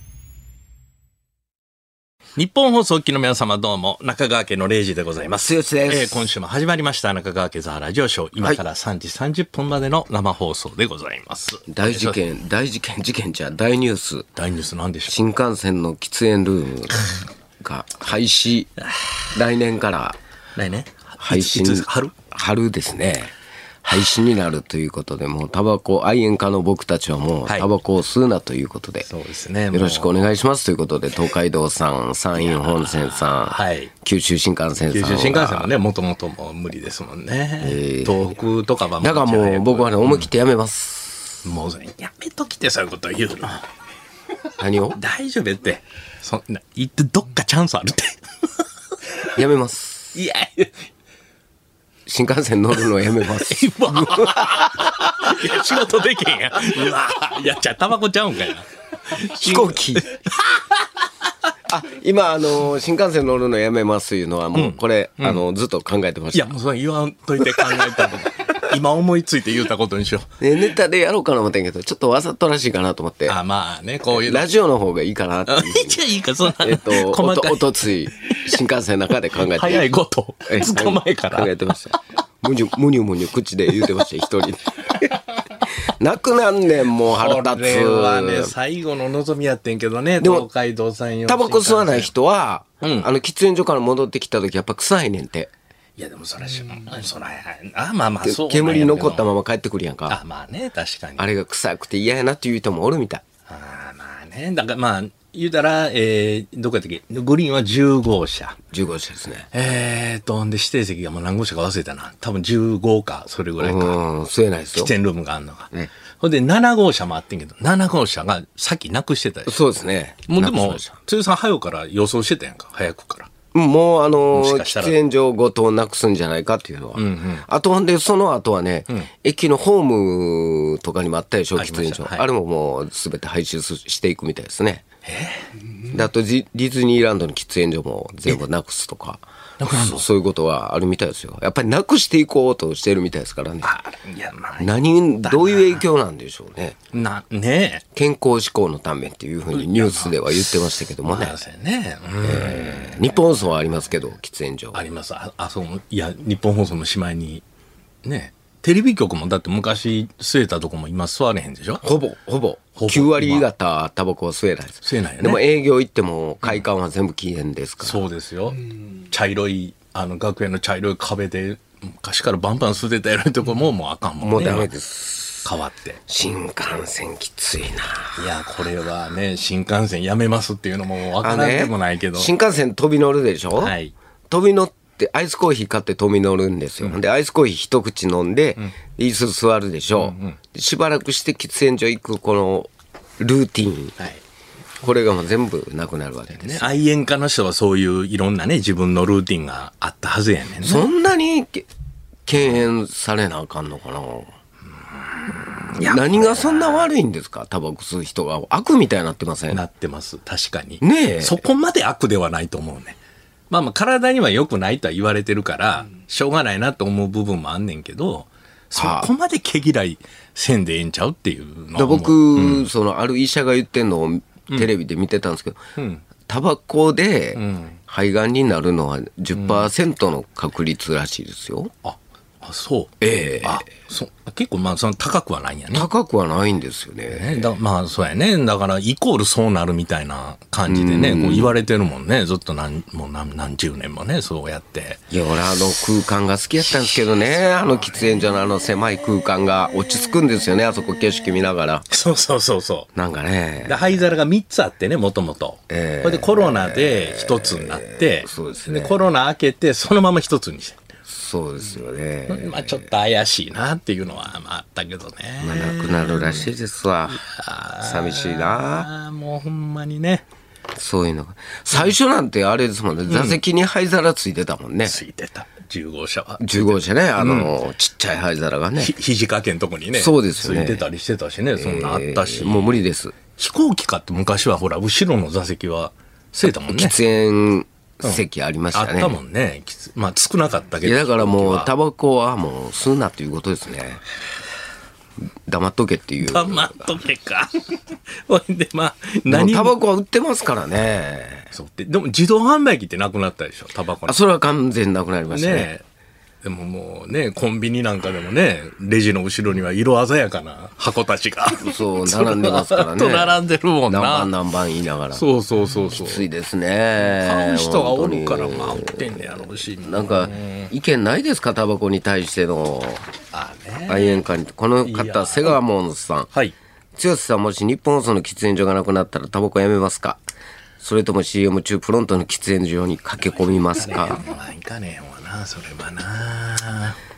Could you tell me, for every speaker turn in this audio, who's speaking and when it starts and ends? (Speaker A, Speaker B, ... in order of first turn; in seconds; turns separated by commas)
Speaker A: 2.4-12.2, Speaker B: 5.4-6.3, Speaker B: 11.7-14.3, Speaker A: 14.4-15.2, Speaker B: 15.1-17.1, Speaker B: 17.6-18.7, Speaker B: 19.3-20.2, Speaker A: 20.6-22.1, Speaker B: 21.2-23.3, Speaker B: 23.8-29.1, Speaker A: 29.1-30.1, Speaker B: 29.7-35.7, Speaker A: 32.4-33.9, Speaker A: 34.9-40.3, Speaker B: 37.6-38.2, Speaker B: 39.0-41.4, Speaker A: 41.5-43.7, Speaker B: 44.6-45.0, Speaker A: 45.0-48.6, Speaker B: 49.4-50.2, Speaker A: 50.1-50.8, Speaker B: 52.1-55.6, Speaker A: 53.4-60.6, Speaker B: 59.1-60.1, Speaker B: 61.7-66.6, Speaker A: 64.5-65.4, Speaker A: 66.3-70.4, Speaker B: 67.4-68.6, Speaker B: 70.4-73.4, Speaker A: 73.3-74.5, Speaker B: 74.1-79.9, Speaker A: 75.5-78.4, Speaker A: 79.4-81.6, Speaker B: 80.5-88.5, Speaker A: 87.0-92.1, Speaker B: 90.2-90.5, Speaker B: 91.3-95.5, Speaker A: 92.8-93.1, Speaker A: 96.0-99.3, Speaker B: 98.2-100.2, Speaker A: 100.1-101.3, Speaker B: 101.2-103.2, Speaker A: 103.5-108.6, Speaker B: 108.7-109.5, Speaker A: 109.5-114.0, Speaker B: 113.6-114.9, Speaker A: 114.8-119.7, Speaker B: 119.5-121.0, Speaker A: 120.3-123.3, Speaker B: 123.5-134.8, Speaker A: 124.3-125.0, Speaker A: 127.0-127.5, Speaker A: 131.6-132.3, Speaker A: 135.1-135.5, Speaker B: 135.9-143.7, Speaker A: 139.6-140.1, Speaker A: 143.6-145.8, Speaker B: 144.6-146.8, Speaker A: 146.9-147.8, Speaker B: 147.9-151.4, Speaker A: 149.5-150.2, Speaker A: 151.1-153.2, Speaker B: 152.2-154.8, Speaker A: 154.7-157.4, Speaker A: 158.0-161.8, Speaker B: 161.8-168.0, Speaker A: 162.8-163.5, Speaker A: 164.8-165.4, Speaker A: 167.8-174.7, Speaker B: 174.2-175.5, Speaker A: 175.4-176.0, Speaker B: 176.1-178.2, Speaker A: 178.2-182.3, Speaker B: 181.2-183.8, Speaker A: 183.6-183.9, Speaker B: 184.3-193.9, Speaker A: 190.0-190.4, Speaker B: 194.8-196.8, Speaker A: 196.4-200.9, Speaker B: 200.6-201.7, Speaker B: 202.3-204.3, Speaker A: 205.3-206.9, Speaker B: 205.8-209.6, Speaker A: 209.5-213.0, Speaker B: 210.8-211.4, Speaker A: 213.5-222.7, Speaker B: 218.8-219.1, Speaker B: 221.8-225.6, Speaker A: 225.8-226.0, Speaker B: 226.3-231.7, Speaker A: 227.3-227.8, Speaker A: 229.3-229.7, Speaker A: 231.8-235.9, Speaker B: 233.0-233.7, Speaker B: 235.7-237.5, Speaker A: 237.1-245.0, Speaker B: 240.7-241.6, Speaker B: 245.1-251.9, Speaker A: 251.9-252.9, Speaker B: 252.9-254.0, Speaker A: 253.7-260.8, Speaker B: 255.7-259.1, Speaker B: 261.1-262.9, Speaker A: 262.3-266.5, Speaker B: 265.4-267.2, Speaker A: 267.2-270.2, Speaker B: 267.8-268.9, Speaker B: 270.8-275.0, Speaker A: 273.1-273.4, Speaker A: 274.9-277.6, Speaker B: 276.4-278.9, Speaker A: 278.8-287.0, Speaker B: 279.9-280.9, Speaker B: 281.6-283.2, Speaker B: 286.7-289.2, Speaker A: 288.7-291.7, Speaker B: 290.8-294.0, Speaker B: 295.5-296.9, Speaker A: 296.2-299.8, Speaker B: 299.3-301.5, Speaker A: 301.5-304.2, Speaker B: 304.1-305.7, Speaker A: 305.3-305.8, Speaker A: 306.4-314.3, Speaker B: 311.6-315.2, Speaker A: 315.1-316.3, Speaker B: 316.0-323.1, Speaker A: 317.0-320.7, Speaker A: 323.3-324.2, Speaker B: 323.9-326.3, Speaker A: 324.8-325.6, Speaker B: 326.9-330.2, Speaker B: 330.8-334.2, Speaker A: 333.8-337.0